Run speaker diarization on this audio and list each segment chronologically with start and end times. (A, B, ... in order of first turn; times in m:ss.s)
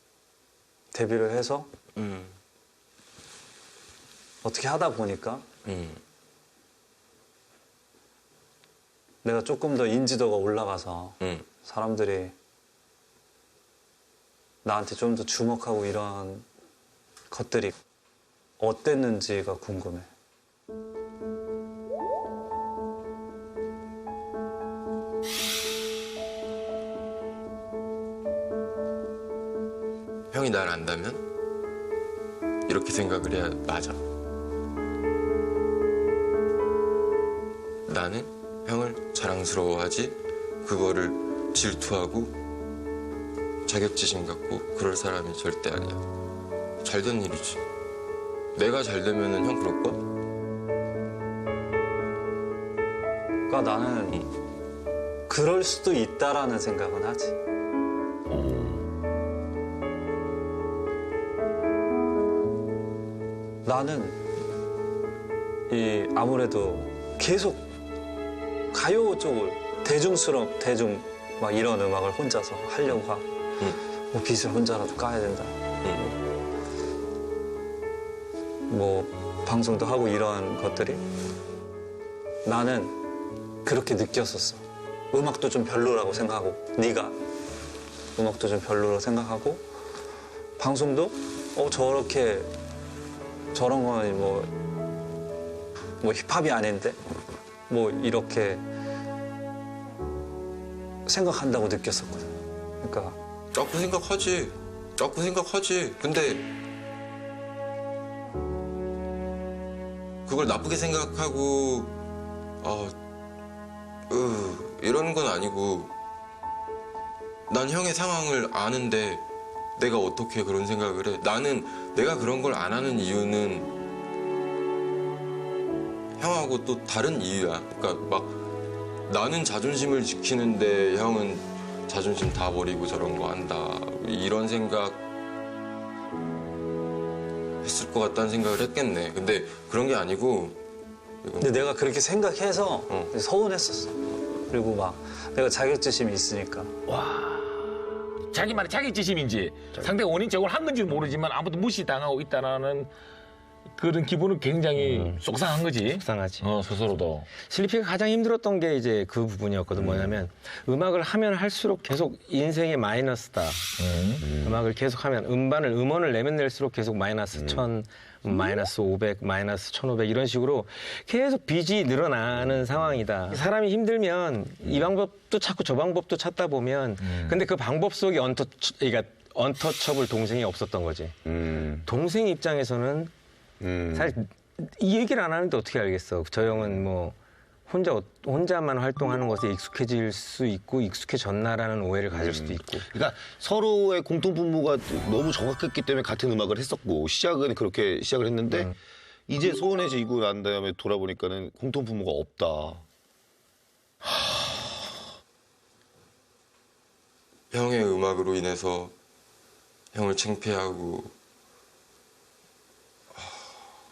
0:00.9-0:01.7 A
0:01.9-0:02.3 B
0:04.4-0:05.5 A
0:05.6-0:06.0 B
0:09.2-0:12.4 A
0:11.2-0:11.4 B
0:14.6-0:16.5 A
0:17.3-0:17.8 A
0:18.6-0:20.1 A
0:30.3-0:31.2 B
0:32.7-0:34.0 B
0:37.9-0:42.4 B
0:43.7-0:46.0 B
0:46.8-0:47.6 B
0:48.5-0:50.0 B
0:53.5-0:54.2 A
0:55.3-0:57.4 A
0:58.3-0:58.7 C
1:03.6-1:04.2 A
1:05.7-1:07.7 A
1:08.7-1:13.3 A
1:14.1-1:15.6 A
1:15.8-1:16.1 B
1:18.7-1:21.0 A
1:22.4-1:23.0 A
1:23.6-1:27.1 A
1:28.2-1:29.6 A
1:30.6-1:32.5 A
1:33.5-1:34.5 A
1:36.0-1:37.0 A
1:37.7-1:38.6 A
1:41.0-1:42.3 A
1:42.8-1:43.2 A
1:43.5-1:46.5 B
1:50.2-1:52.0 B
1:52.6-1:52.9 B
1:54.1-1:55.9 B
1:57.5-1:59.2 B
1:59.8-2:03.7 B
2:06.2-2:08.4 B
2:09.1-2:15.0 B
2:17.6-2:20.6 B
2:21.2-2:21.5 B
2:21.4-2:26.7 A
2:28.3-2:32.9 D
2:33.8-2:37.3 D
2:34.8-2:35.2 E
2:36.0-2:36.5 E
2:37.4-2:43.6 E
2:39.8-2:40.2 C
2:43.8-2:44.3 D
2:44.2-2:44.6 C
2:44.4-3:01.1 E
2:47.4-2:47.6 C
3:01.2-3:01.8 C
3:01.9-3:03.1 E
3:03.6-3:04.1 C
3:04.0-3:07.1 E
3:07.7-3:12.8 E
3:12.1-3:18.8 C
3:19.3-3:22.8 C
3:27.5-3:28.9 B
3:29.9-3:31.1 B
3:33.1-3:33.5 B